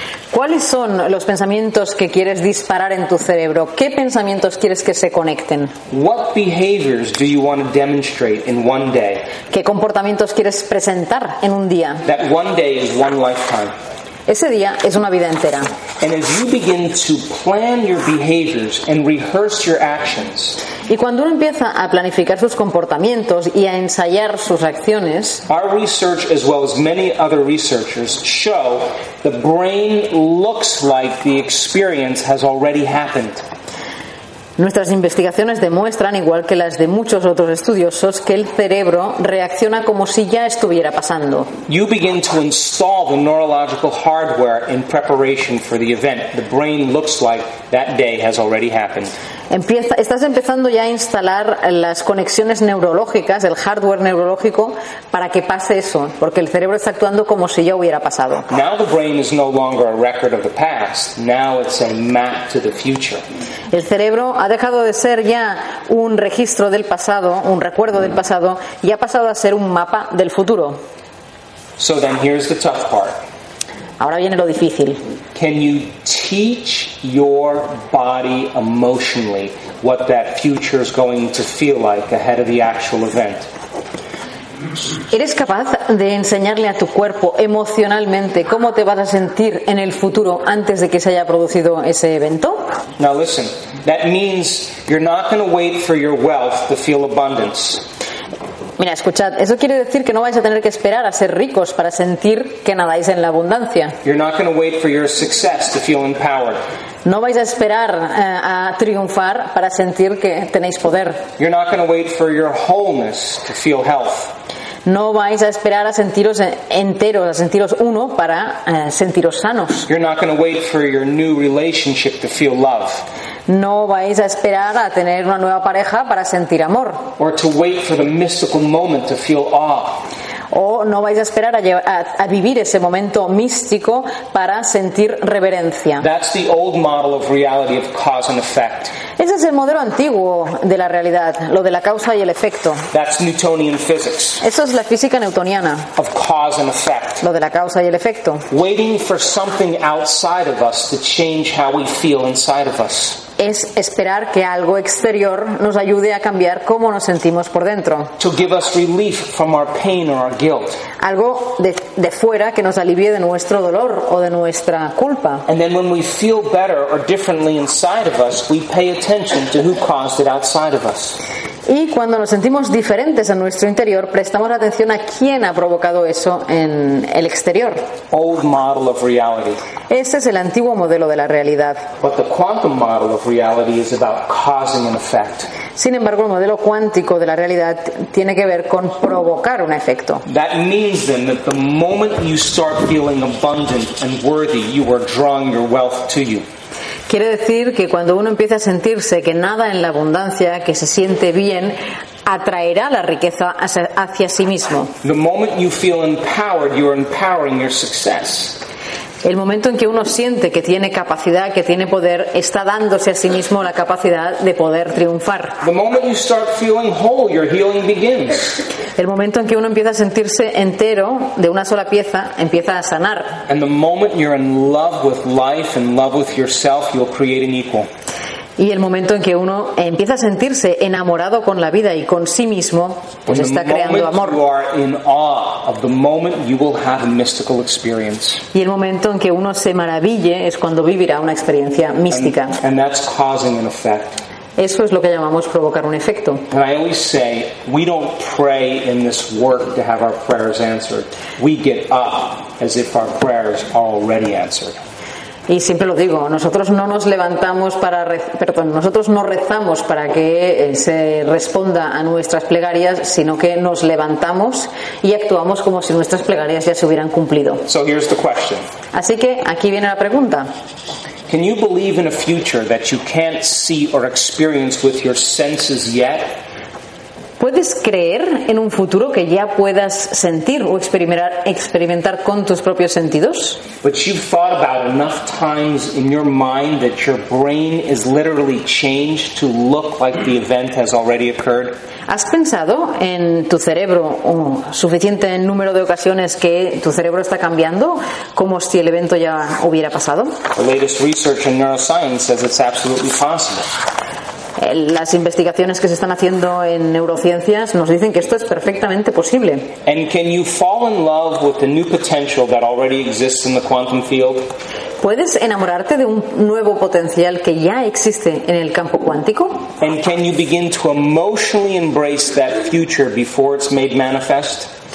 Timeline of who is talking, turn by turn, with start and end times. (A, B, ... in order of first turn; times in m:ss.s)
0:00.3-0:05.8 A
0:05.9-0:09.3 B
0:09.5-0:12.0 A
0:12.0-0:13.8 B
0:14.3-0:15.7 A
0:16.0-0:20.6 B
0:20.9-0:25.4 A
0:25.5-0:33.4 B
0:34.6-0:41.5 A
0:41.7-0:49.1 B
0:49.5-0:58.5 A
0:58.5-1:03.2 B
1:03.7-1:10.8 A
1:11.8-1:13.2 B
1:14.0-1:15.0 A
1:15.4-1:23.5 B
1:25.1-1:32.7 A
1:33.0-1:37.9 B
1:38.8-1:44.0 A
1:44.0-1:46.6 B
1:47.0-1:51.2 A
1:51.4-1:54.3 B
1:54.8-1:59.9 A
1:59.9-2:03.0 B
2:03.5-2:07.1 A
2:07.2-2:10.1 B
2:10.5-2:16.1 A
2:16.0-2:19.0 B
2:19.2-2:22.8 A
2:22.9-2:24.4 B
2:24.4-2:25.9 A
2:26.0-2:27.2 B
2:27.2-2:28.4 A
2:28.5-2:33.2 B
2:33.4-2:38.1 A
2:38.2-2:40.8 B
2:41.0-2:45.5 A
2:45.5-2:51.2 B
2:51.7-2:57.9 A
2:58.1-2:59.6 B
2:59.9-3:01.9 A
3:02.0-3:05.5 B
3:05.8-3:10.2 A
3:10.3-3:16.4 B
3:17.1-3:24.9 A
3:25.0-3:28.6 B
3:29.2-3:35.6 A
3:35.6-3:38.6 B
3:39.0-3:43.4 A
3:43.5-3:47.9 B
3:48.6-3:54.4 A
3:53.3-3:58.4 B
3:58.5-4:02.6 A
4:02.1-4:04.2 B
4:04.6-4:06.5 A
4:06.5-4:14.8 B
4:15.5-4:27.7 A
4:27.7-4:28.6 B
4:28.9-4:30.5 A
4:31.3-4:36.4 B
4:37.4-4:43.6 A
4:43.8-4:51.8 B
4:52.1-5:00.4 A
5:00.6-5:03.7 B
5:04.6-5:09.7 A
5:09.8-5:14.5 B
5:15.0-5:19.7 A
5:19.8-5:24.7 B